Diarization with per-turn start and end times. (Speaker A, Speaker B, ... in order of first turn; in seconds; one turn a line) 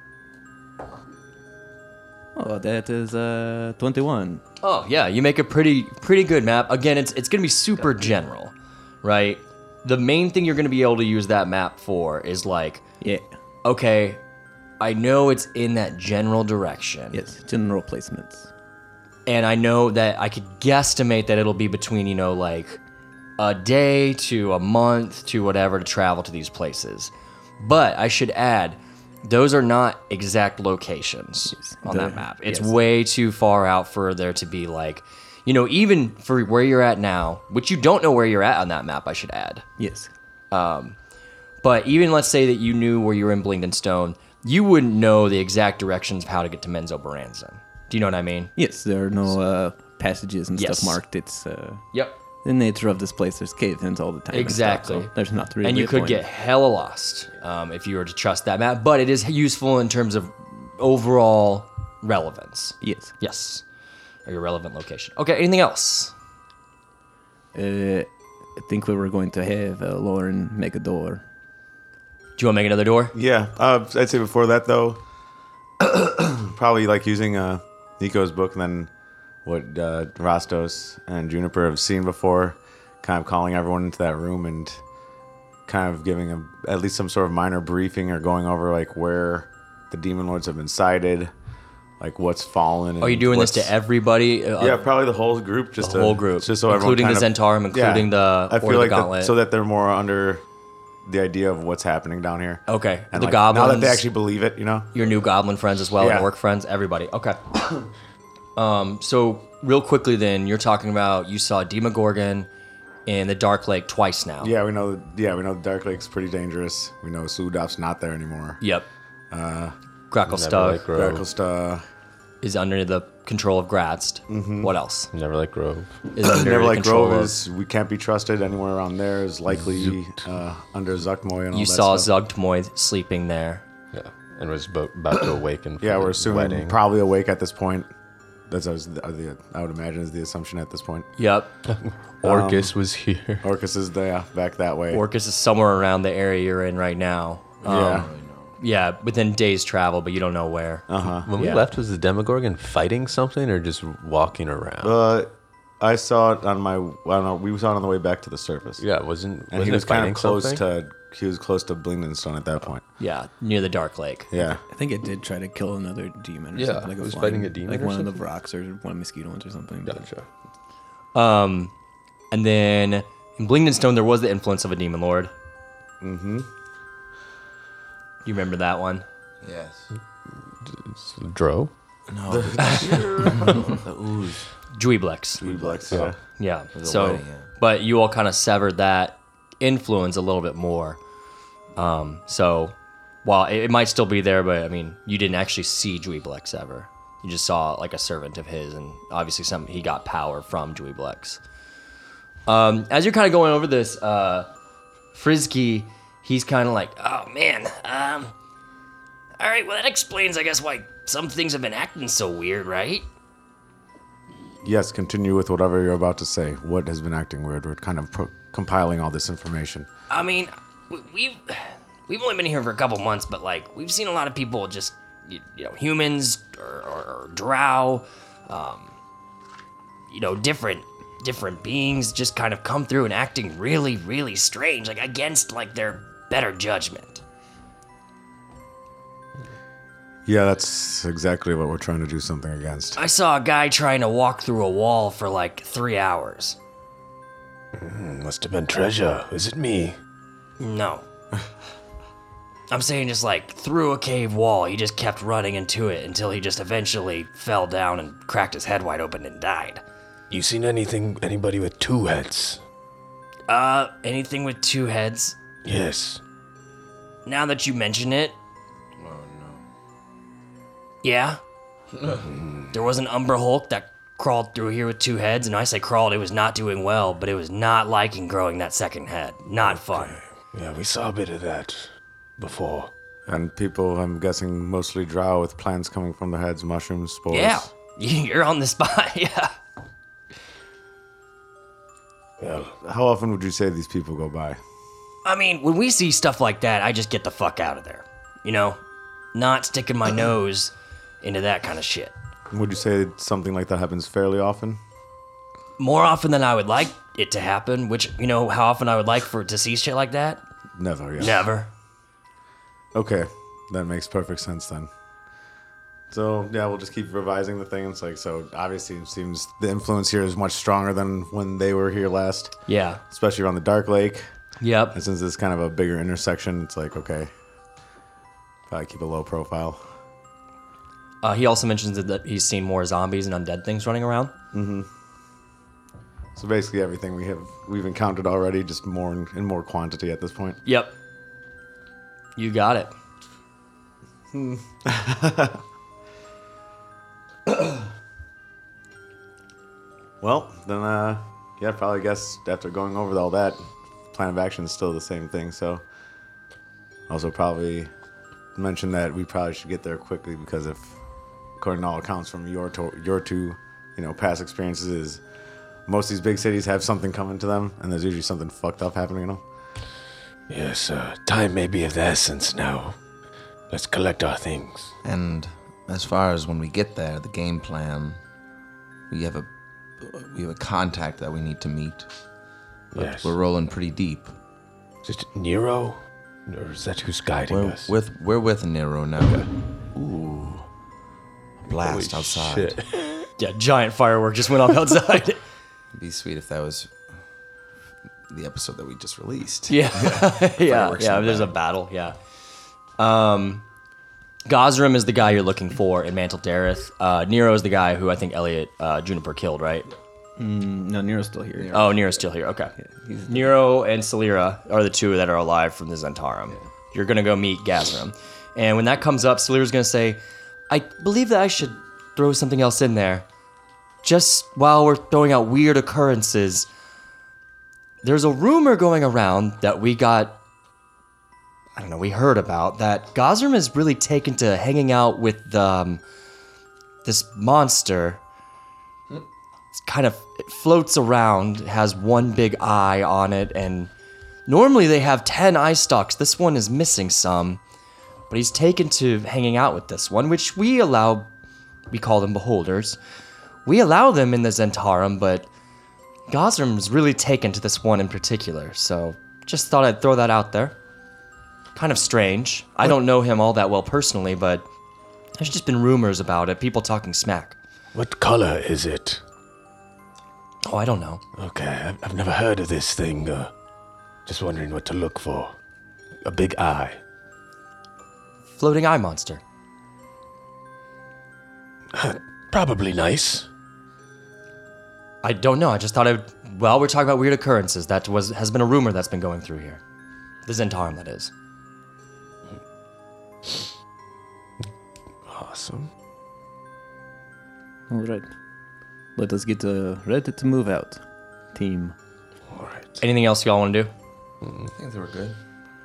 Speaker A: 2.3-4.4
Speaker B: 4.6-12.8
Speaker A: 13.0-13.3
Speaker B: 13.6-14.2
Speaker B: 14.8-17.2
Speaker A: 17.1-18.5
Speaker B: 19.2-22.8
Speaker B: 23.4-39.6
Speaker A: 31.5-32.8
Speaker A: 39.8-40.1
Speaker B: 40.5-41.0
Speaker B: 41.6-48.5
Speaker A: 48.5-56.2
Speaker B: 50.5-51.0
Speaker B: 51.9-52.2
Speaker B: 54.3-63.6
Speaker A: 62.8-63.1
Speaker B: 64.2-66.1
Speaker A: 67.5-71.2
Speaker B: 72.4-73.1
Speaker C: 73.1-75.0
Speaker C: 75.8-78.9
Speaker C: 79.4-84.8
Speaker C: 85.7-91.3
Speaker C: 92.0-93.8
Speaker B: 93.0-94.8
Speaker C: 94.6-100.4
Speaker B: 95.8-99.3
Speaker C: 101.0-104.9
Speaker B: 102.7-104.0
Speaker B: 104.9-107.8
Speaker C: 106.0-106.3
Speaker B: 108.5-112.5
Speaker B: 113.0-114.5
Speaker C: 114.4-118.6
Speaker B: 118.6-118.9
Speaker C: 119.3-119.7
Speaker B: 120.1-120.8
Speaker D: 120.3-121.2
Speaker C: 120.9-121.8
Speaker B: 122.4-125.1
Speaker C: 124.3-124.7
Speaker E: 125.1-125.7
Speaker D: 125.2-125.9
Speaker B: 126.1-127.4
Speaker C: 126.2-132.1
Speaker B: 131.5-133.6
Speaker E: 133.9-135.8
Speaker D: 134.1-136.7
Speaker C: 135.8-137.9
Speaker C: 138.5-141.1
Speaker B: 141.2-141.5
Speaker C: 142.2-142.7
Speaker E: 142.2-143.4
Speaker C: 143.4-145.0
Speaker B: 144.9-148.1
Speaker C: 147.6-148.1
Speaker F: 147.7-148.5
Speaker B: 148.6-151.6
Speaker C: 150.9-151.3
Speaker E: 151.3-154.9
Speaker C: 154.8-158.8
Speaker E: 158.8-160.6
Speaker D: 158.9-160.1
Speaker C: 159.5-162.8
Speaker B: 163.0-164.3
Speaker C: 164.3-164.6
Speaker A: 164.7-170.1
Speaker D: 166.6-168.2
Speaker D: 169.8-170.2
Speaker B: 171.1-171.7
Speaker B: 172.3-175.3
Speaker C: 176.0-176.5
Speaker B: 178.2-179.0
Speaker F: 179.4-179.9
Speaker D: 180.7-181.7
Speaker F: 182.1-184.5
Speaker C: 182.3-183.7
Speaker B: 182.6-183.3
Speaker B: 184.7-185.4
Speaker F: 185.4-186.1
Speaker C: 185.4-186.2
Speaker B: 186.4-191.0
Speaker F: 186.7-187.5
Speaker B: 191.8-201.4
Speaker B: 202.5-204.5
Speaker B: 205.1-208.3
Speaker B: 209.4-213.1
Speaker C: 214.6-219.9
Speaker B: 220.1-228.9
Speaker B: 230.1-237.2
Speaker C: 240.2-243.0
Speaker B: 243.0-246.6
Speaker E: 247.7-250.0
Speaker B: 250.6-251.0
Speaker B: 252.7-259.8
Speaker E: 260.3-262.6
Speaker B: 263.5-265.4
Speaker E: 265.6-266.2
Speaker B: 267.2-268.4
Speaker F: 269.0-269.6
Speaker B: 271.0-271.4
Speaker E: 272.1-272.7
Speaker B: 272.7-280.2
Speaker E: 279.7-282.9
Speaker C: 283.3-287.7
Speaker B: 287.3-289.5
Speaker E: 292.4-292.7
Speaker C: 292.7-294.6
Speaker B: 295.2-298.8
Speaker B: 299.3-302.1
Speaker C: 302.5-304.8
Speaker B: 305.8-310.4
Speaker C: 310.8-311.5
Speaker B: 311.2-311.7
Speaker C: 312.9-314.9
Speaker C: 316.1-322.6
Speaker B: 322.7-323.0
Speaker C: 323.1-324.2
Speaker B: 324.6-325.0
Speaker C: 324.9-327.3
Speaker C: 328.7-329.8
Speaker B: 331.2-334.3
Speaker C: 334.5-334.9
Speaker C: 336.3-340.6
Speaker B: 340.6-340.9
Speaker B: 342.4-342.9
Speaker C: 344.3-345.6
Speaker C: 347.5-347.7
Speaker C: 350.2-355.8
Speaker C: 357.1-357.9
Speaker C: 358.6-361.0
Speaker C: 361.6-365.2
Speaker C: 365.9-369.4
Speaker E: 370.5-373.0
Speaker E: 373.7-374.9
Speaker F: 375.0-378.2
Speaker F: 379.1-379.5
Speaker F: 380.0-382.1
Speaker E: 382.9-383.3
Speaker F: 382.9-384.3
Speaker E: 385.0-387.9
Speaker F: 387.5-389.5
Speaker E: 390.0-390.6
Speaker F: 391.6-392.8
Speaker D: 391.8-392.8
Speaker B: 393.4-395.4
Speaker F: 395.9-396.9
Speaker F: 398.3-401.5
Speaker B: 399.7-402.2
Speaker B: 403.0-403.6
Speaker B: 404.4-409.9
Speaker A: 410.4-411.9
Speaker F: 411.6-411.9
Speaker B: 411.7-412.7
Speaker A: 412.8-413.5
Speaker B: 413.2-423.2
Speaker B: 424.0-426.7
Speaker B: 428.0-430.4
Speaker B: 431.8-436.0
Speaker B: 437.0-438.2
Speaker B: 439.7-443.9
Speaker B: 444.4-447.6
Speaker B: 448.3-451.3
Speaker B: 451.9-453.0
Speaker B: 453.6-455.5
Speaker B: 456.3-460.8
Speaker B: 461.7-464.7
Speaker B: 465.4-467.6
Speaker E: 467.9-469.2
Speaker B: 470.6-471.2
Speaker E: 471.4-473.5
Speaker E: 474.2-475.5
Speaker E: 476.2-477.0
Speaker B: 478.5-479.4
Speaker E: 481.9-483.5
Speaker B: 485.2-489.8
Speaker B: 490.4-491.3
Speaker E: 495.3-495.9
Speaker A: 497.9-498.3
Speaker A: 499.1-501.0
Speaker A: 501.5-501.9
Speaker E: 502.5-503.0
Speaker B: 503.0-503.9
Speaker F: 504.7-505.4